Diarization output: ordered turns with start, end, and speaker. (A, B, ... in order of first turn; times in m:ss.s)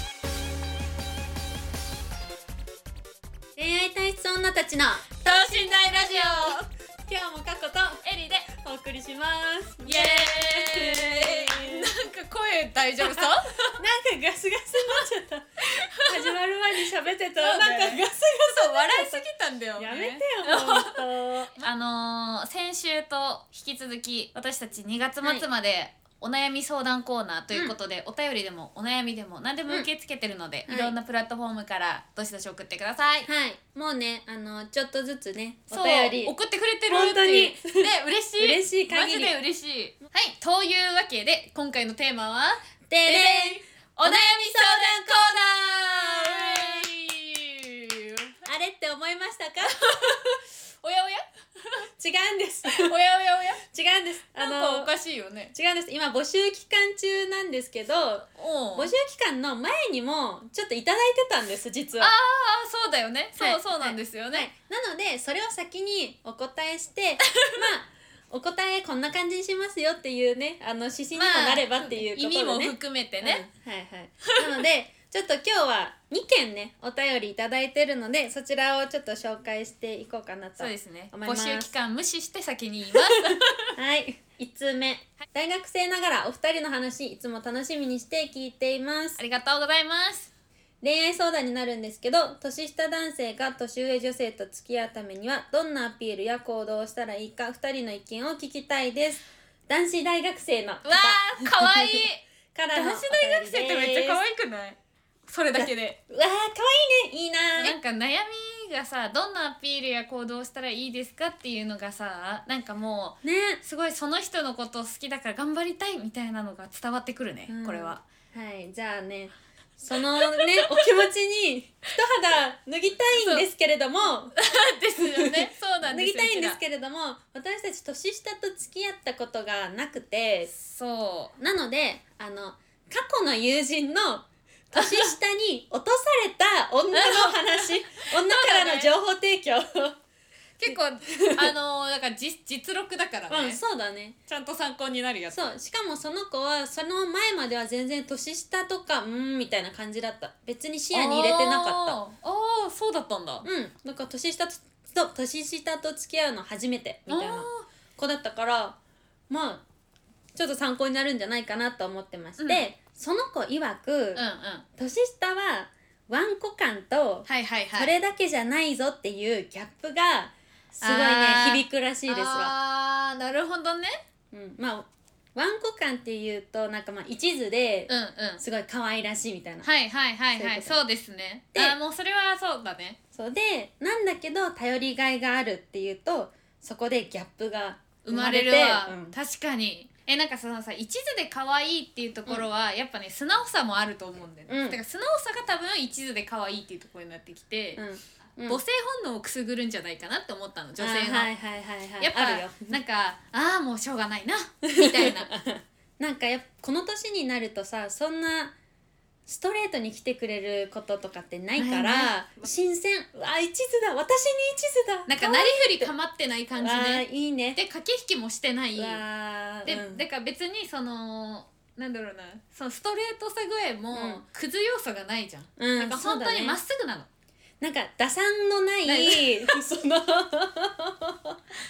0:03.6-0:11.9 A
0:05.2-0:06.6 B
0:08.0-0:08.5 B
0:09.8-0:13.8 B
0:13.0-0:19.2 A
0:15.6-0:16.2 B
0:17.4-0:21.0 B
0:19.8-0:21.6 A
0:21.6-0:33.3 B
0:30.7-0:30.9 A
0:33.2-0:36.3 A
0:35.7-0:48.3 B
0:36.9-0:39.3 A
0:42.9-0:46.9 A
0:48.4-0:50.2 A
0:49.7-0:51.9 B
0:52.0-0:52.9 A
0:52.7-0:53.6 B
0:53.6-0:54.9 A
0:54.4-0:55.5 B
0:55.5-1:02.1 A
0:58.4-0:58.9 B
1:02.0-1:04.5 B
1:03.4-1:21.7 A
1:07.3-1:07.6 B
1:11.2-1:13.4 B
1:20.6-1:23.7 B
1:23.8-1:29.2 A
1:29.2-1:30.3 B
1:30.8-1:42.0 A
1:40.8-1:46.0 B
1:42.5-1:44.2 A
1:45.6-1:47.8 A
1:47.6-1:58.0 B
1:53.2-1:53.6 A
1:57.5-2:04.4 A
2:00.0-2:01.0 B
2:03.1-2:03.5 B
2:04.3-2:06.6 B
2:05.0-2:10.5 A
2:10.5-2:11.4 B
2:11.4-2:20.0 A
2:14.7-2:15.1 B
2:16.9-2:18.9 B
2:20.6-2:23.6 B
2:20.6-2:21.5 A
2:23.3-2:24.2 A
2:24.3-2:25.5 B
2:25.3-2:32.0 A
2:30.9-2:33.5 B
2:33.4-2:38.8 A
2:37.1-2:37.7 B
2:39.3-2:39.6 A
2:40.3-2:44.2 A
2:42.4-2:42.6 B
2:44.1-2:44.6 B
2:44.8-2:52.5 A
2:47.3-2:47.9 B
2:50.8-2:53.9 B
2:54.3-2:59.7 A
2:57.9-2:58.4 B
2:59.6-3:03.0 B
3:00.4-3:00.8 A
3:03.1-3:09.1 A
3:08.0-3:17.8 B
3:14.5-3:14.8 A
3:17.8-3:18.6 A
3:18.5-3:21.3 B
3:20.8-3:22.8 A
3:22.0-3:25.3 B
3:24.6-3:28.5 A
3:29.3-3:35.9 A
3:31.6-3:32.1 B
3:35.1-3:39.0 B
3:36.6-3:37.6 A
3:38.8-3:40.0 A
3:39.6-3:47.1 B
3:43.9-3:44.2 A
3:45.6-3:46.6 A
3:47.6-3:51.4 A
3:48.8-3:49.6 B